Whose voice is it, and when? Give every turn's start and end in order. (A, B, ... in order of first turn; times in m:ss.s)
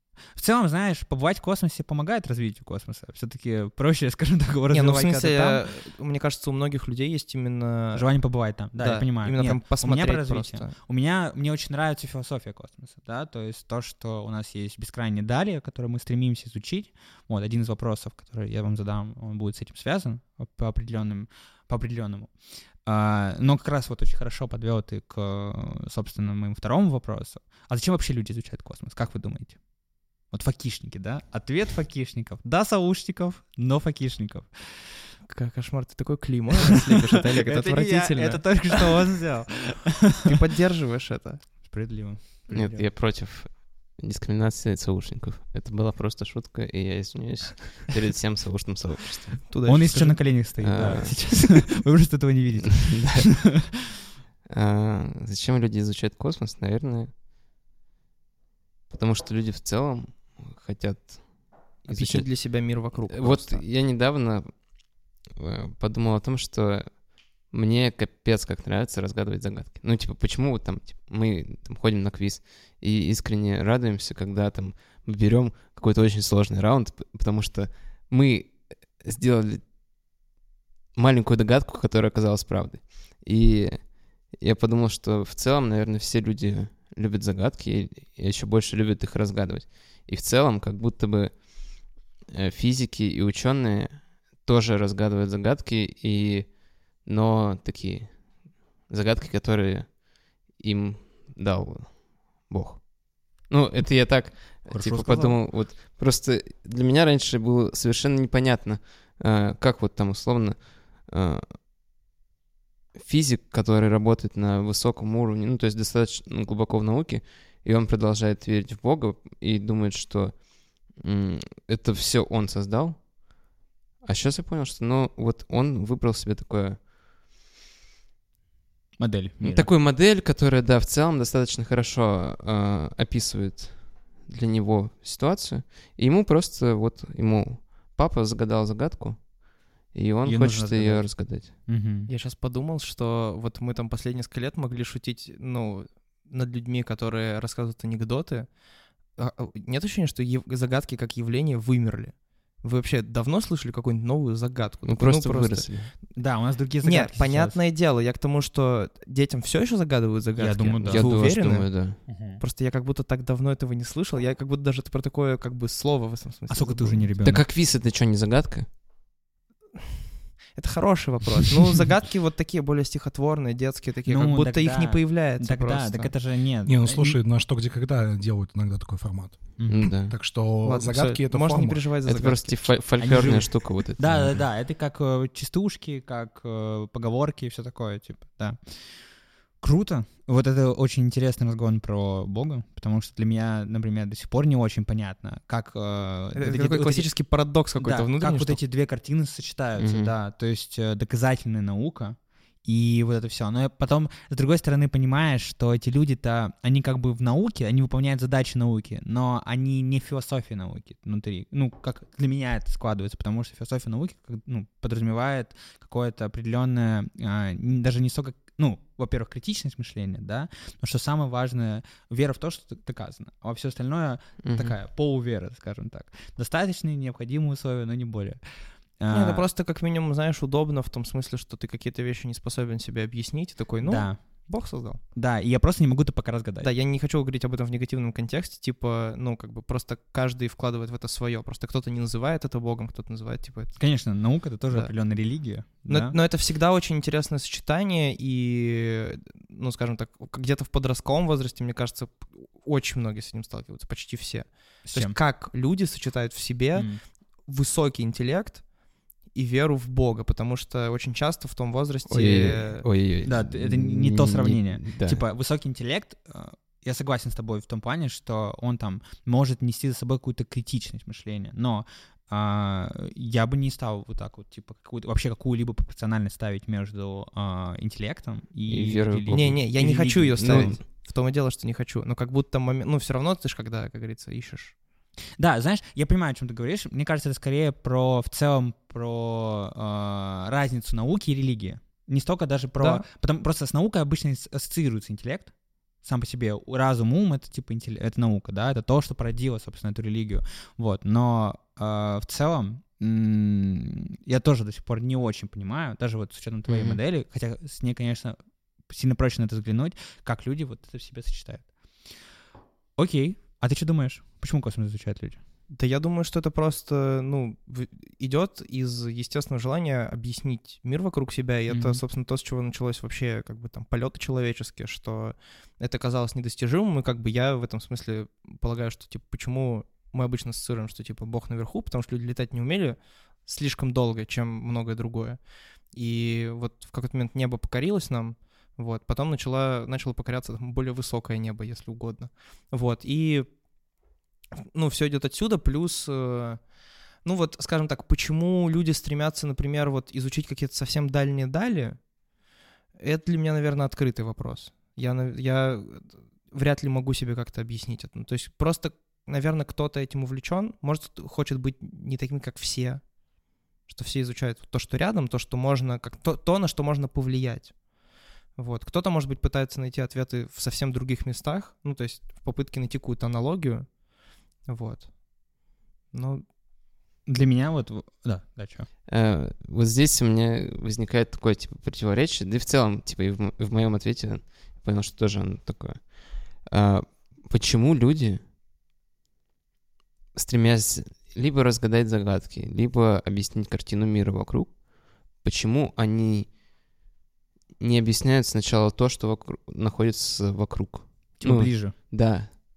0:00.3-0:05.6 A
0:04.7-0:10.7 B
0:07.9-0:22.3 A
0:22.8-0:29.6 A
0:30.2-0:34.9 A
0:35.2-0:39.2 B
0:37.4-0:40.2 A
0:40.2-0:41.5 B
0:41.6-0:42.8 A
0:42.5-0:49.4 C
0:49.5-0:50.3 B
0:49.6-0:53.5 A
0:50.6-0:51.4 C
0:52.9-0:53.3 C
0:54.5-0:57.1 C
0:58.9-1:19.7 C
1:01.8-1:03.6 B
1:20.9-1:51.6 C
1:44.7-1:45.4 A
1:52.9-2:03.1 C
2:04.0-2:06.9 C
2:09.0-2:09.7 A
2:09.4-2:21.7 C
2:20.2-2:22.1 A
2:22.1-2:36.2 B
2:34.8-2:35.9 C
2:36.2-2:37.6 A
2:36.8-2:47.1 B
2:40.4-2:41.2 A
2:40.8-2:42.0 C
2:42.1-2:42.4 A
2:46.5-2:47.5 A
2:47.2-2:48.7 C
2:50.5-2:56.1 B
2:54.1-2:57.2 A
2:56.6-3:01.9 D
2:59.6-2:59.9 A
2:59.7-3:00.1 C
3:00.6-3:03.4 B
3:02.0-3:04.5 C
3:03.0-3:17.1 A
3:16.3-3:18.6 B
3:17.8-3:49.4 A
3:19.8-3:20.1 C
3:44.4-3:44.8 C
3:49.1-3:55.0 B
3:53.8-3:54.5 A
3:55.1-3:56.7 A
3:56.6-4:04.0 B
4:03.8-4:06.2 A
4:04.7-4:18.7 B
4:14.8-4:15.2 A
4:16.7-4:17.0 A
4:19.3-4:22.9 B
4:22.1-4:25.2 C
4:23.2-4:40.8 A
4:38.7-4:39.6 C
4:39.3-4:44.8 B
4:40.4-4:40.8 C
4:45.4-5:08.4 A
4:52.8-4:53.1 B
5:06.7-5:07.0 C
5:08.9-5:11.7 A
5:13.0-5:15.4 A
5:15.7-5:43.6 B
5:21.7-5:22.0 A
5:44.6-5:52.1 B
5:53.0-6:03.1 B
6:03.8-6:07.8 B
6:08.6-6:14.0 B
6:14.6-6:15.5 B
6:16.1-6:16.4 B
6:17.3-6:18.9 A
6:19.1-6:28.4 C
6:30.3-6:36.5 C
6:37.8-6:42.5 C
6:41.4-6:41.9 A